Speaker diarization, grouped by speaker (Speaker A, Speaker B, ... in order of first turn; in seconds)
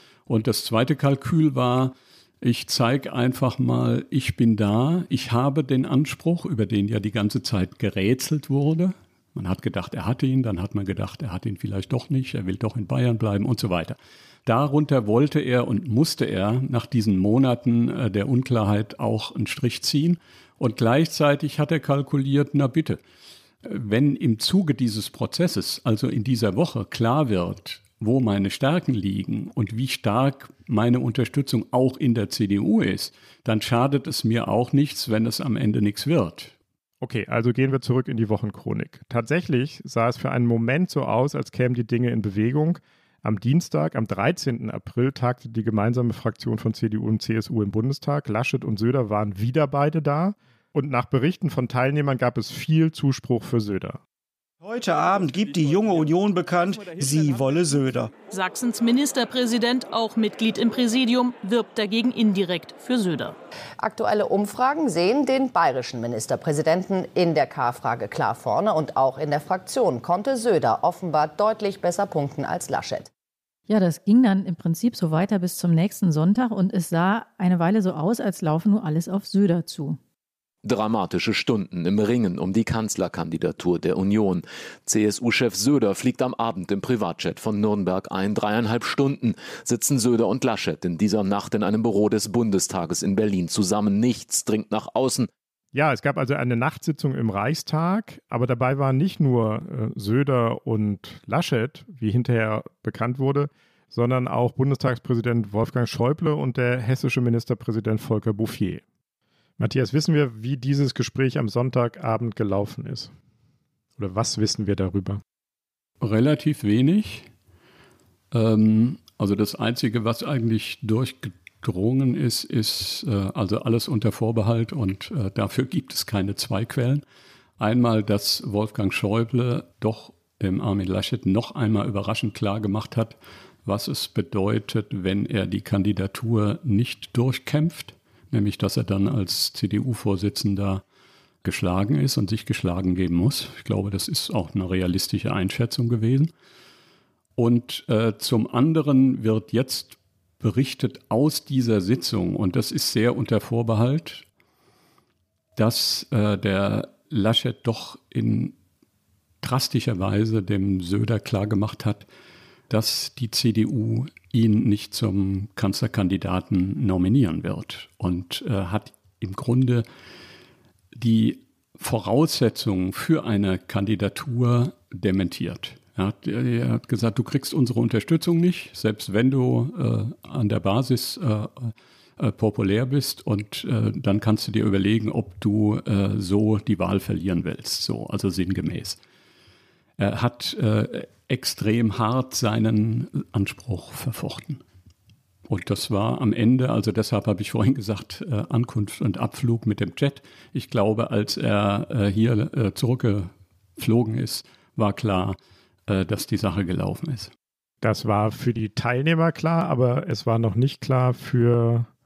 Speaker A: 0.3-23.0, 23.6-36.5, 116.0-117.3, 118.3-127.0, 127.6-140.8, 141.4-146.3, 147.4-154.2, 155.6-158.5, 159.4-162.1, 162.7-169.9, 170.9-189.0, 190.0-194.6, 195.5-207.3
Speaker B: 37.0-54.0, 95.7-108.8, 109.6-113.1, 114.0-115.2, 207.8-211.9
Speaker C: 54.6-58.1
Speaker D: 58.3-63.4
Speaker E: 63.8-73.1
Speaker F: 73.7-80.0
Speaker G: 80.6-95.3